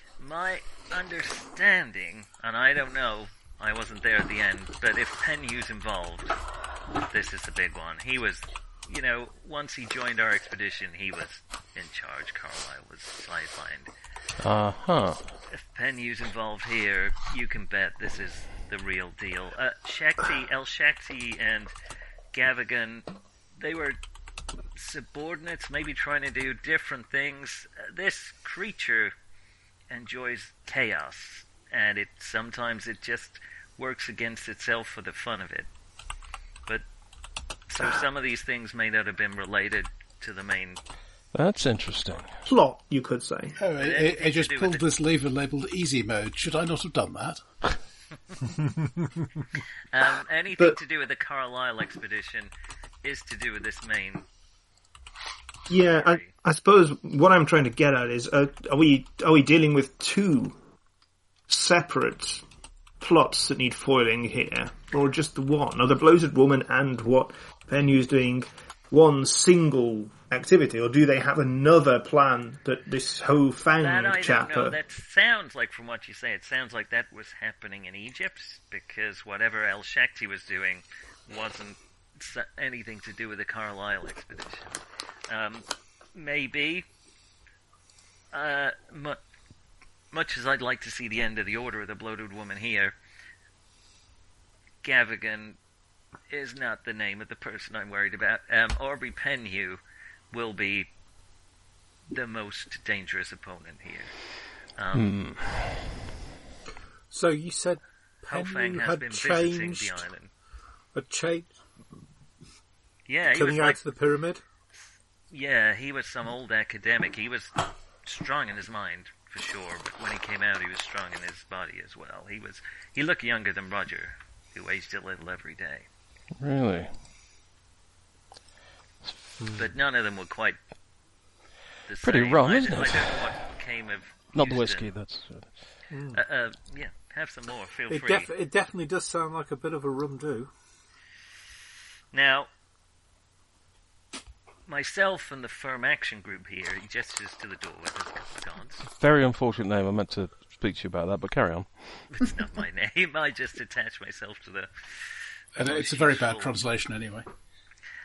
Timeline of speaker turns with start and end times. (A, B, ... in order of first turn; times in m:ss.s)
0:00.2-0:06.4 A
0:07.1-0:13.9 A
0:14.4-0:15.3 B
0:15.5-0:21.7 A
0:22.3-0:24.0 A
0:24.8-0:29.1 A
0:29.9-0:35.7 A
0:37.7-0:40.8 A
0:41.3-0:42.5 B
0:42.5-0:43.6 C
0:43.6-0:47.4 D
0:43.8-0:44.9 A
0:49.9-0:52.5 A
0:53.0-0:54.3 A
0:55.7-1:00.6 C
0:56.0-0:56.3 A
1:01.5-1:02.4 C
1:03.0-1:14.8 C
1:13.8-1:26.9 A
1:28.3-1:29.2 A
1:30.1-1:33.0 A
1:34.8-1:35.6 A
1:36.3-1:39.8 A
1:40.3-1:40.9 A
1:42.1-1:44.1 A
1:44.8-1:45.2 A
1:44.9-1:45.5 B
1:47.1-1:50.1 E
1:48.3-1:50.3 A
1:50.9-1:51.5 E
1:53.1-1:53.8 A
1:53.3-1:54.4 E
1:55.3-2:05.9 A
2:06.4-2:06.9 B
2:09.4-2:09.7 E
2:09.6-2:10.6 A
2:11.9-2:14.9 A
2:12.0-2:13.4 B
2:14.3-2:15.5 B
2:15.9-2:16.2 E
2:16.1-2:18.3 A
2:17.9-2:20.5 E
2:22.1-2:22.5 A
2:24.7-2:28.9 A
2:28.9-2:31.7 B
2:32.1-2:36.5 A
2:35.6-2:37.3 D